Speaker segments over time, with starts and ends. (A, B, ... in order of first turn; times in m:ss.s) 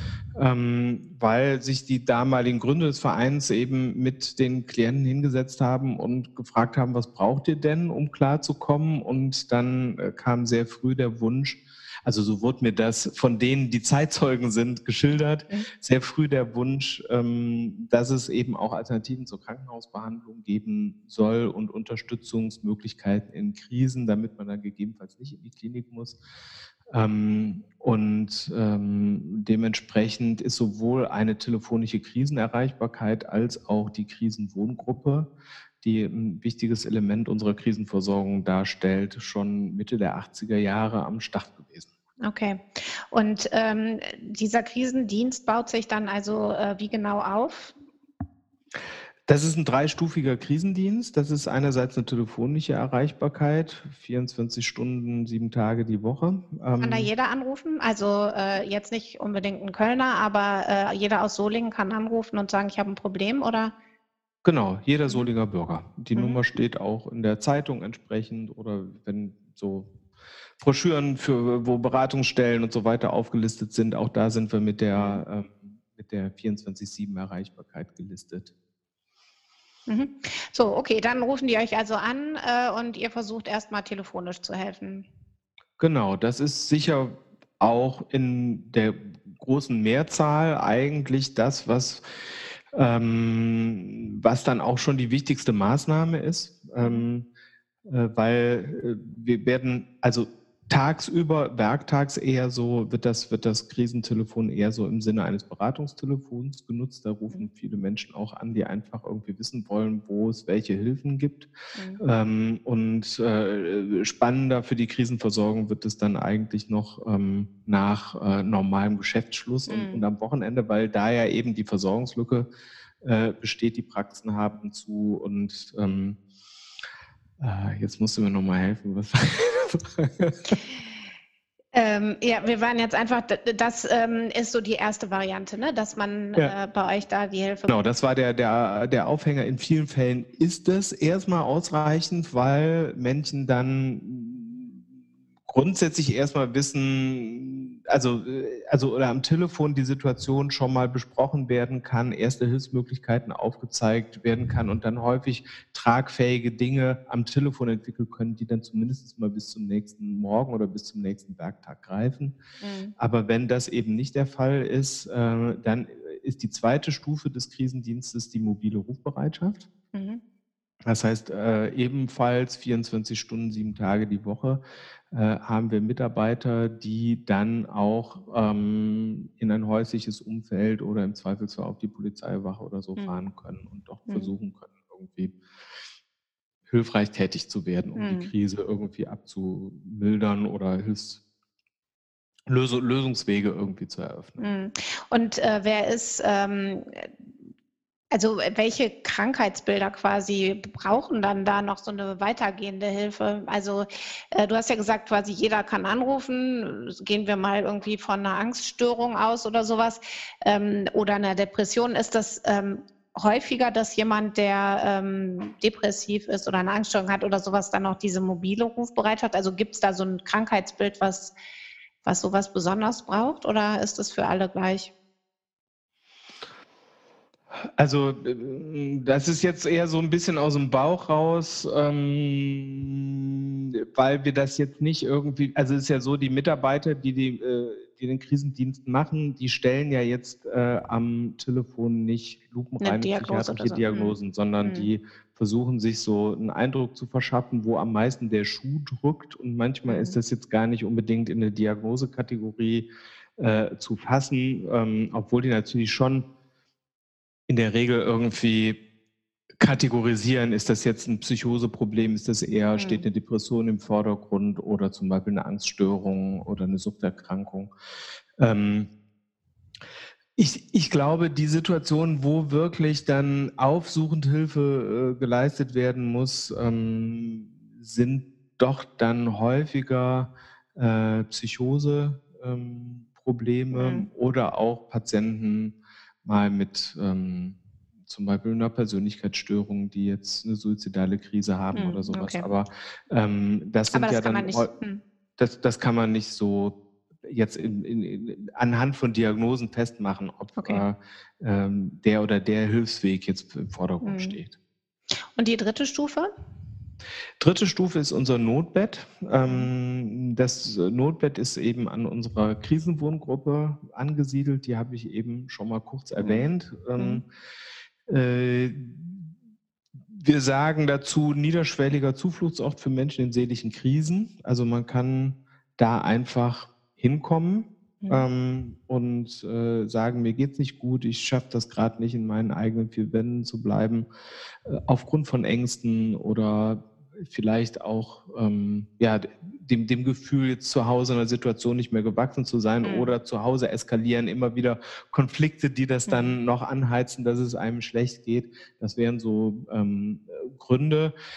0:00.4-0:26.2 A
0:26.9-0:35.3 A
0:35.8-0:41.9 A
0:42.2-0:47.8 B
0:49.3-0:57.1 A
0:56.8-1:03.7 B
1:04.4-1:09.9 A
1:06.2-1:06.4 B
1:10.6-1:18.5 A
1:15.0-1:15.2 B
1:19.9-1:25.1 B
1:25.8-1:37.3 A
1:36.8-1:37.1 B
1:37.9-2:02.5 A
1:51.8-1:52.0 B
1:59.7-2:00.1 B
2:03.0-2:06.2 A
2:07.4-2:10.6 A
2:11.7-2:17.7 B
2:17.7-2:24.9 A
2:25.5-2:42.4 A
2:42.6-2:42.9 B
2:43.0-2:49.7 A
2:49.9-2:50.2 B
2:50.9-3:05.4 A
3:03.0-3:03.3 B
3:06.7-3:11.2 A
3:08.0-3:08.3 B
3:12.5-3:14.5 A
3:14.4-3:17.3 B
3:18.1-3:41.3 B
3:42.0-3:44.9 B
3:47.8-4:16.3 A
4:02.8-4:04.9 B
4:09.9-4:10.2 B
4:17.5-4:18.8 A
4:19.6-4:27.7 A
4:22.8-4:23.1 B
4:28.4-4:28.9 A
4:30.4-4:54.7 A
4:43.7-4:44.1 B
4:51.7-4:52.5 B
4:53.9-4:55.0 B
4:55.4-5:04.6 A
5:00.6-5:00.8 B
5:04.0-5:04.4 B
5:05.4-5:06.3 B
5:07.4-5:17.2 A
5:09.5-5:09.7 B
5:16.2-5:17.2 B
5:18.1-5:19.3 A
5:20.0-5:34.1 A
5:34.7-5:51.1 A
5:42.8-5:43.2 B
5:46.1-5:46.4 B